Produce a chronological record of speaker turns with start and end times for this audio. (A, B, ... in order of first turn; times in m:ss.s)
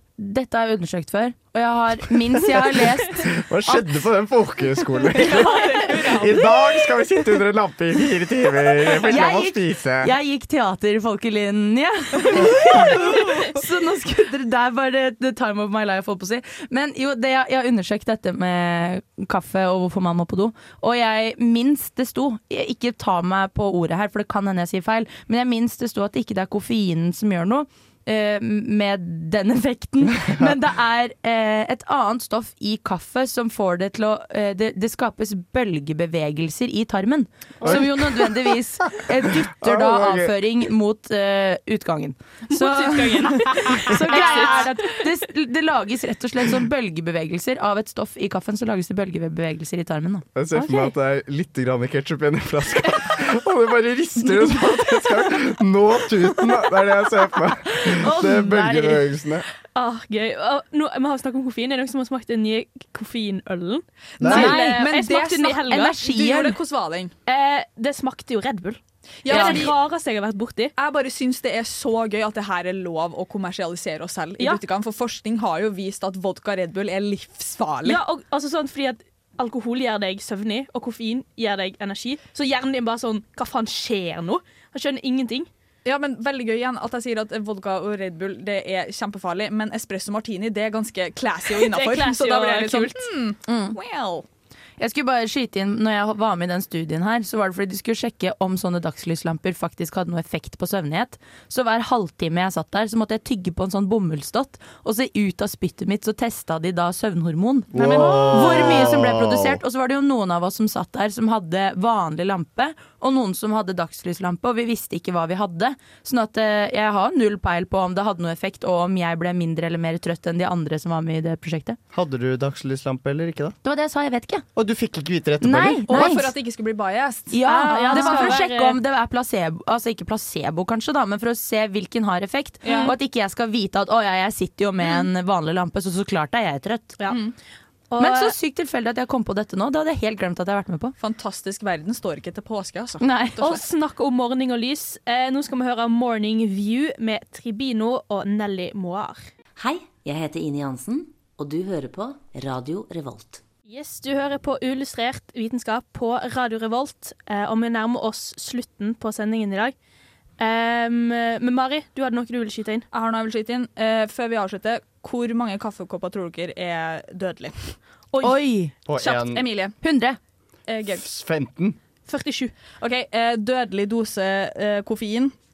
0:00.2-0:03.8 A
0:03.3-0:10.1 B
0:05.9-0:06.3 C
0:09.1-0:50.3 A
0:37.6-0:40.3 B
0:42.5-0:45.0 D
0:42.7-0:44.5 C
0:50.4-0:59.5 B
0:50.5-0:50.9 D
0:57.9-0:59.1 D
0:59.8-1:06.0 D
1:04.2-1:04.6 B
1:04.2-1:07.1 C
1:04.3-1:06.6 A
1:07.3-1:10.7 D
1:09.2-1:09.8 C
1:09.3-1:09.6 A
1:10.8-1:18.0 C
1:17.8-1:25.5 D
1:25.8-1:34.3 C
1:31.5-1:33.1 D
1:33.5-1:33.8 A
1:34.8-2:01.8 A
1:47.7-1:49.6 B
1:48.0-1:48.5 D
2:01.9-2:03.6 B
2:03.6-2:04.4 A
2:04.6-2:06.1 B
2:05.4-2:06.3 A
2:05.9-2:08.4 C
2:07.3-2:17.0 A
2:07.4-2:08.8 D
2:12.6-2:12.9 C
2:12.6-2:13.0 D
2:17.1-2:17.3 C
2:17.9-2:18.4 D
2:18.0-2:20.9 A
2:21.0-2:23.6 C
2:23.0-2:23.4 A
2:23.4-2:29.3 D
2:29.6-2:33.4 E
2:33.7-2:39.8 D
2:40.4-2:42.9 D
2:42.9-2:47.8 C
2:48.1-2:48.4 D
2:48.2-2:48.7 A
2:48.9-2:49.5 B
2:49.0-2:49.8 C
2:49.8-2:50.2 A
2:50.7-2:51.1 C
2:50.9-2:51.8 B
2:52.1-2:52.5 D
2:52.8-2:55.3 C